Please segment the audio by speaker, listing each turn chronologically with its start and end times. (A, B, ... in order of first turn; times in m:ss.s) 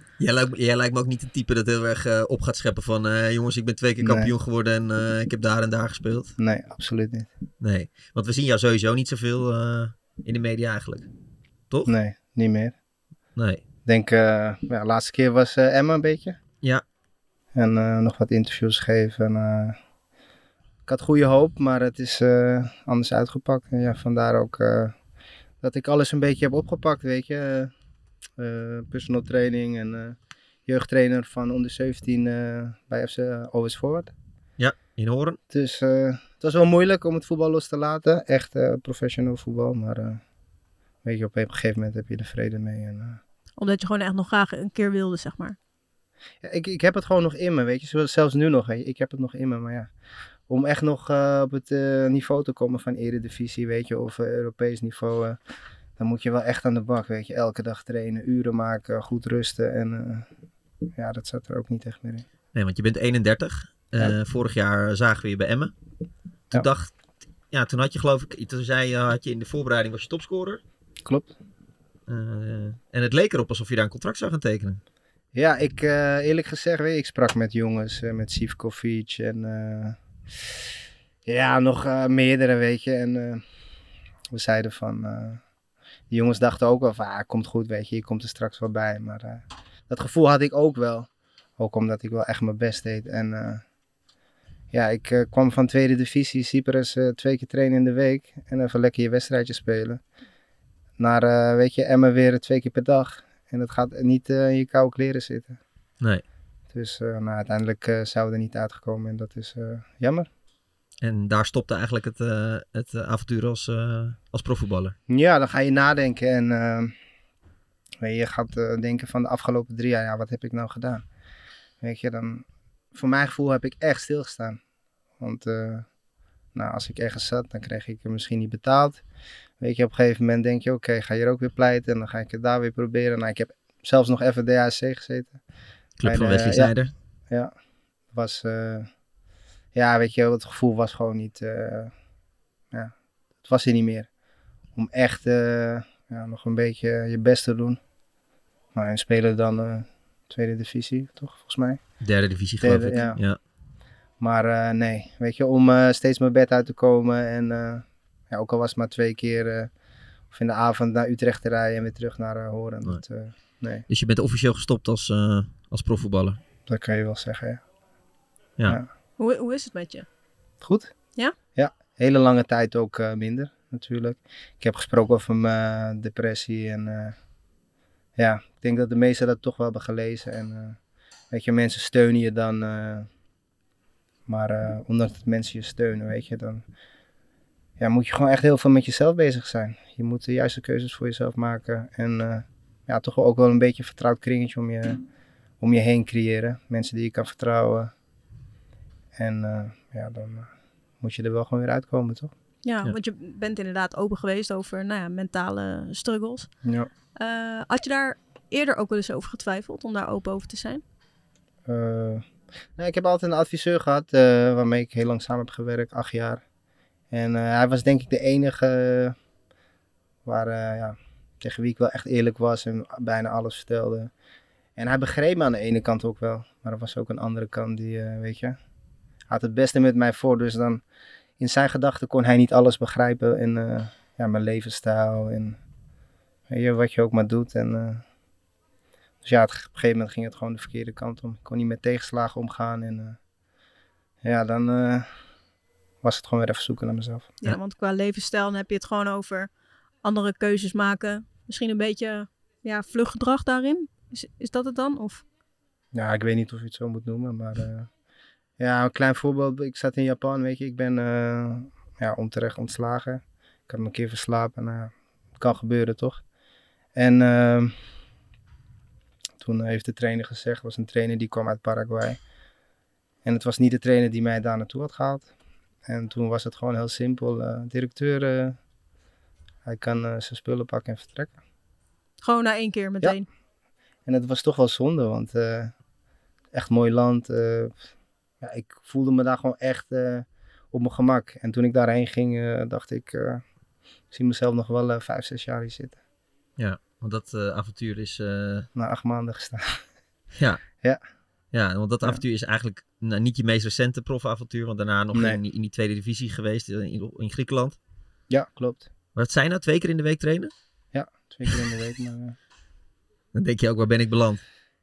0:00.2-0:06.3 A
0:04.0-0:04.3 B
0:06.4-0:07.3 B
0:07.6-0:11.1 A
0:11.9-0:12.8 B
0:13.4-0:13.6 A
0:13.8-0:16.4 B
0:17.6-0:19.8 B
0:20.9-0:25.0 B
0:25.6-0:27.7 B
0:28.4-0:34.1 B
0:34.6-0:35.4 A
0:35.5-0:40.2 B
0:41.0-0:43.2 B
0:43.6-0:45.6 C
0:46.4-0:49.9 B
0:50.5-0:55.4 B
0:56.0-1:00.3 B
1:01.0-1:02.3 B
1:02.5-1:05.7 A
1:06.5-1:06.9 A
1:07.5-1:10.6 A
1:11.0-1:11.3 B
1:12.1-1:14.8 A
1:15.3-1:20.6 B
1:21.3-1:23.4 B
1:24.3-1:25.4 B
1:26.1-1:33.6 B
1:34.7-1:40.0 B
1:41.0-1:45.6 B
1:46.7-1:50.3 B
1:51.0-1:55.0 A
1:55.1-1:56.9 B
1:58.0-2:01.0 B
2:01.8-2:04.6 B
2:05.2-2:05.9 B
2:06.6-2:09.0 B
2:09.6-2:15.4 B
2:16.0-2:16.9 A
2:16.0-2:16.7 B
2:18.1-2:18.9 B
2:19.8-2:21.9 B
2:22.7-2:24.1 B
2:24.8-2:27.8 B
2:28.7-2:31.8 B
2:32.0-2:33.4 A
2:32.6-2:33.2 B
2:34.2-2:39.7 B
2:40.3-2:43.8 B
2:43.9-2:46.4 A
2:46.7-2:47.6 B
2:49.2-2:50.1 C
2:50.6-2:50.9 B
2:51.6-2:57.2 B
2:58.2-3:00.8 B
3:01.3-3:03.1 B
3:04.3-3:06.6 B
3:07.8-3:15.0 B
3:15.6-3:17.9 B
3:19.2-3:22.3 B
3:22.6-3:26.5 C
3:27.2-3:30.8 C
3:31.7-3:36.4 B
3:37.1-3:39.2 B
3:40.2-3:44.1 B
3:44.8-3:48.6 B
3:49.3-3:50.8 B
3:51.4-3:55.6 B
3:56.5-3:58.0 B
3:59.2-4:03.2 B
4:04.2-4:05.1 B
4:06.0-4:07.3 B
4:07.4-4:09.5 C
4:10.0-4:15.2 C
4:15.9-4:17.9 B
4:18.6-4:26.2 B
4:27.0-4:27.7 B
4:29.4-4:32.2 B
4:33.2-4:35.3 B
4:35.9-4:38.6 B
4:39.7-4:41.3 B
4:42.2-4:43.3 C
4:44.1-4:45.7 B
4:46.5-4:47.8 B
4:48.4-4:53.4 B
4:54.1-4:56.0 B
4:56.6-4:58.7 A
4:58.8-4:59.8 B
5:00.4-5:00.6 A
5:01.5-5:07.8 A
5:05.1-5:05.4 B
5:08.3-5:08.9 B
5:09.2-5:10.5 A
5:10.9-5:12.4 B
5:13.3-5:14.4 A